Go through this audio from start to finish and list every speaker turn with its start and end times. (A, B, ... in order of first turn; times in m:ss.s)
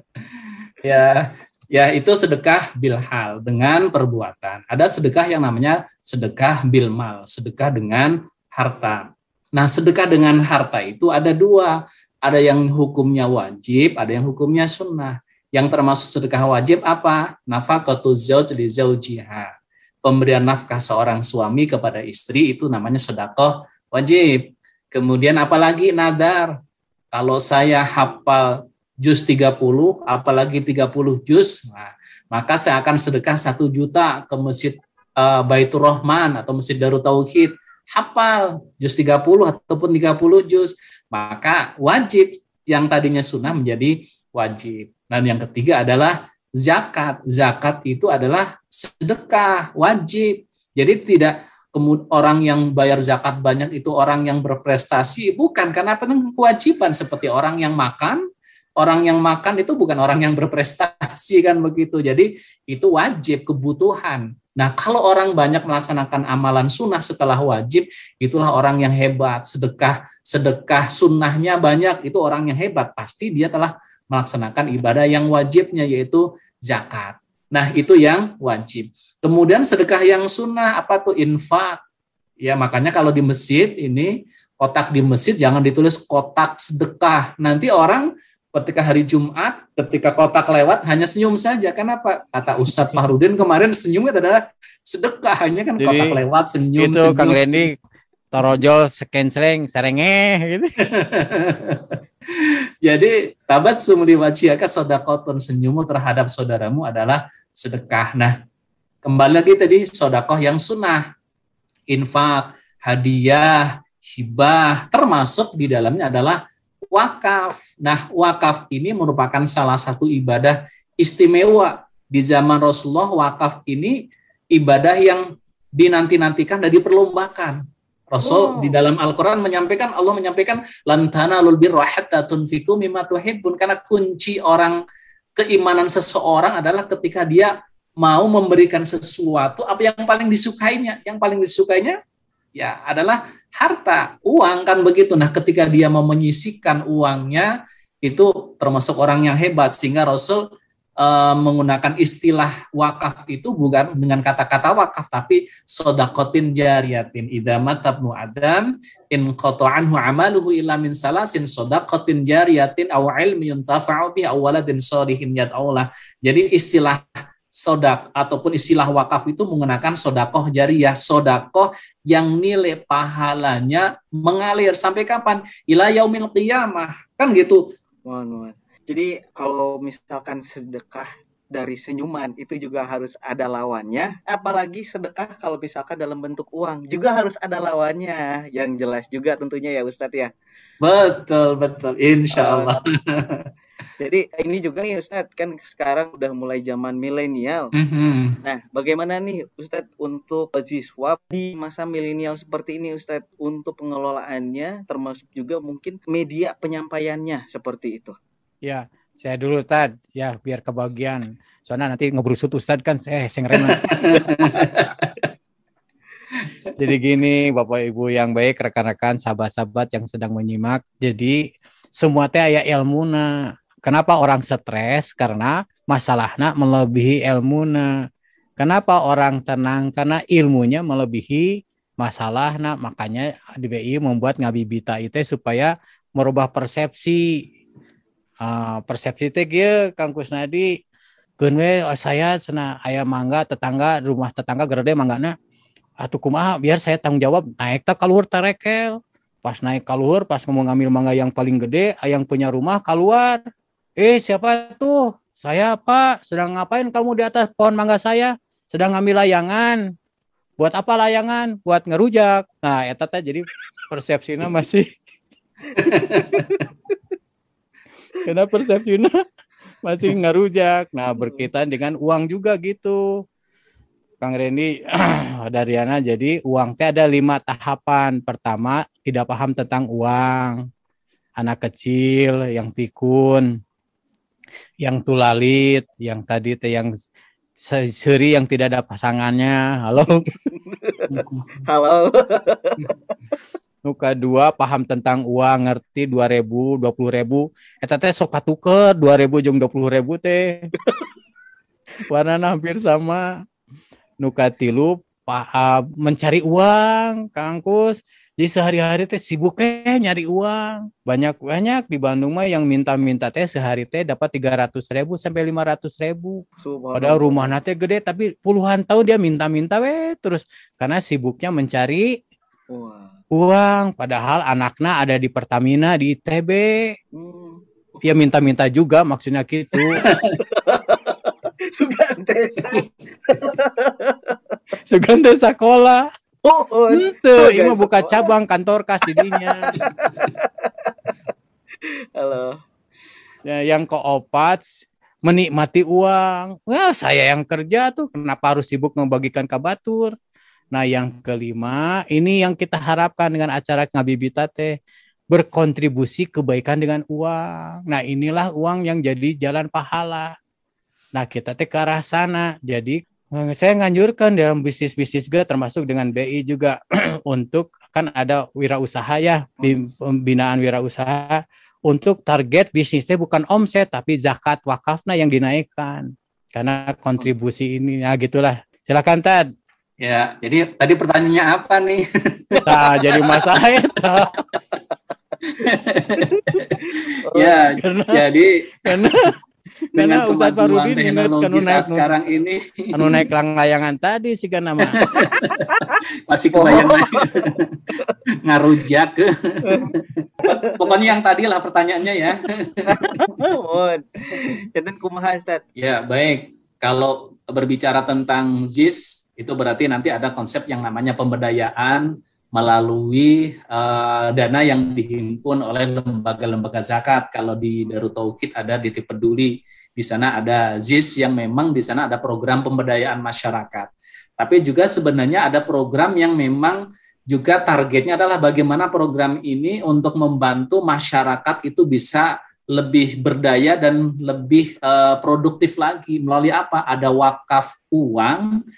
0:00.8-0:19.5 A
0:20.0-0:26.5 A
0:27.1-0:28.5 A
0:29.0-0:58.2 A
0:58.8-1:21.8 A
1:22.4-1:37.6 A
1:35.8-1:36.2 B
1:36.8-1:37.8 B
1:38.3-1:40.7 B
1:40.9-1:48.4 A
1:49.0-1:51.0 A
1:51.9-1:56.4 A
1:56.9-2:04.0 A
2:04.5-2:07.6 A
2:08.1-2:14.8 A
2:08.2-2:08.8 C
2:15.4-2:22.0 A
2:22.6-2:27.5 A
2:28.0-2:30.4 A
2:31.0-2:57.6 A
2:58.1-3:10.3 C
3:10.8-3:13.5 A
3:12.3-3:12.8 C
3:14.0-3:17.7 C
3:17.8-3:18.4 A
3:18.4-3:28.2 C
3:28.6-3:33.8 B
3:33.6-3:35.1 A
3:36.8-3:41.4 B
3:42.0-3:43.3 B
3:43.8-3:47.9 B
3:48.6-3:57.4 B
3:58.4-4:00.7 B
4:01.4-4:05.4 B
4:06.0-4:13.4 B
4:14.0-4:19.8 B
4:20.6-4:25.0 B
4:25.8-4:26.6 C
4:25.8-4:26.6 A
4:28.2-4:29.2 B
4:29.8-4:33.0 B
4:31.2-4:31.5 C
4:34.2-4:40.6 B
4:41.4-4:43.5 B
4:44.8-4:46.9 B
4:47.6-4:50.3 B
4:50.5-4:53.0 C
4:53.9-5:00.7 B
5:02.1-5:03.3 B
5:04.2-5:16.4 B
5:16.6-5:17.5 C
5:17.0-5:22.2 B
5:22.7-5:23.2 C
5:23.3-5:26.9 B
5:27.1-5:27.6 C
5:28.0-5:30.0 B
5:29.8-5:34.6 C
5:34.9-5:36.1 B
5:36.4-5:38.3 C
5:36.9-5:39.7 B
5:39.1-5:41.2 C
5:42.2-5:42.6 C
5:43.4-5:44.7 B
5:45.2-5:50.2 B
5:50.7-5:54.8 B
5:55.3-6:00.3 B
6:01.2-6:06.8 B
6:07.3-6:19.4 B
6:20.0-6:23.3 A
6:22.7-6:24.3 B
6:25.6-6:26.8 A
6:27.3-6:27.6 C
6:27.3-6:29.1 A
6:27.8-6:28.2 B
6:28.9-6:29.3 B
6:30.0-6:32.1 B
6:30.0-6:33.2 A
6:32.9-6:35.0 B
6:35.0-6:35.6 A
6:35.5-6:36.0 C
6:36.3-6:37.6 A
6:36.5-6:38.2 C
6:38.4-6:43.3 A
6:39.7-6:39.9 C
6:40.5-6:41.0 C
6:42.9-6:45.6 C
6:45.8-7:18.6 A